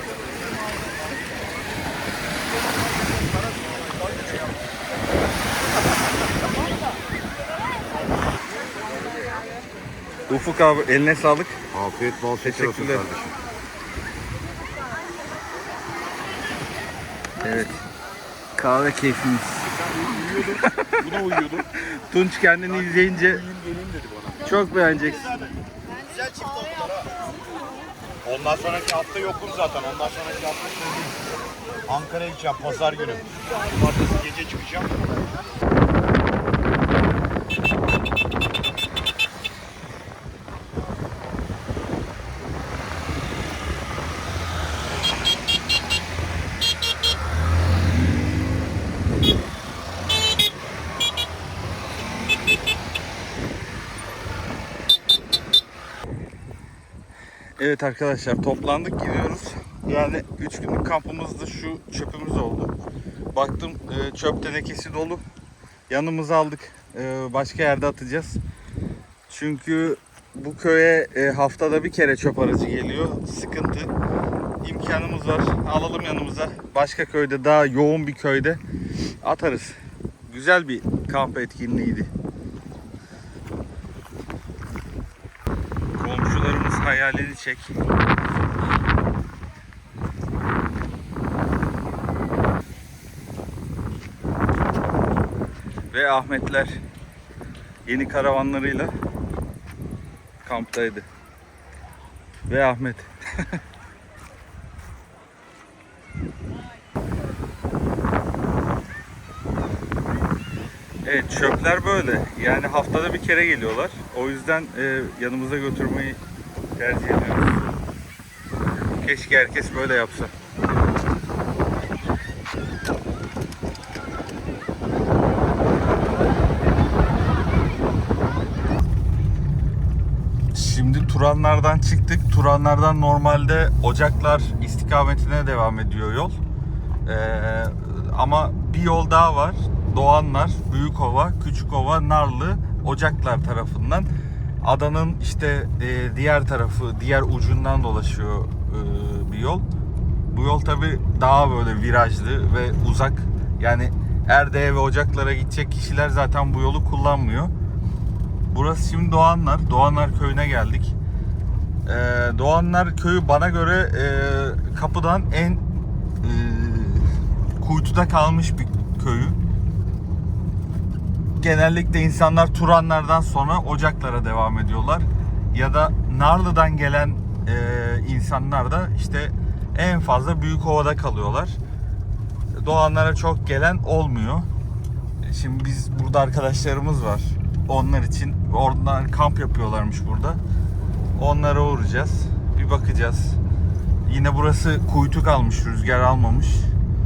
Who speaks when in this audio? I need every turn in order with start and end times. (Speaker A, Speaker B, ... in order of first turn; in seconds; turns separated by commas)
Speaker A: 10.3-11.6, Speaker B: 11.7-13.3, Speaker A: 12.4-13.1, Speaker A: 17.4-17.8, Speaker A: 18.6-19.7, Speaker B: 19.9-21.6, Speaker A: 21.9-23.4, Speaker B: 23.2-24.4, Speaker A: 24.4-25.4, Speaker B: 26.1-27.1, Speaker B: 28.2-31.2, Speaker B: 31.9-34.9, Speaker A: 57.6-62.7, Speaker A: 63.3-65.2, Speaker A: 65.9-68.4, Speaker A: 69.3-73.9, Speaker A: 74.6-78.6, Speaker A: 79.2-79.7, Speaker A: 80.3-82.1, Speaker A: 85.9-87.7, Speaker A: 95.9-96.8, Speaker A: 97.8-98.9, Speaker A: 100.4-101.0, Speaker A: 102.5-103.6, Speaker A: 111.0-116.2, Speaker A: 116.8-117.7, Speaker A: 119.0-120.3, Speaker A: 130.5-136.3, Speaker A: 137.1-144.1, Speaker A: 144.6-149.6, Speaker A: 150.3-157.5, Speaker A: 158.5-160.9, Speaker A: 161.8-165.6, Speaker A: 166.2-169.3, Speaker A: 171.4-181.6, Speaker A: 182.5-184.5, Speaker A: 185.2-190.4, Speaker A: 191.2-193.4, Speaker A: 194.1-196.7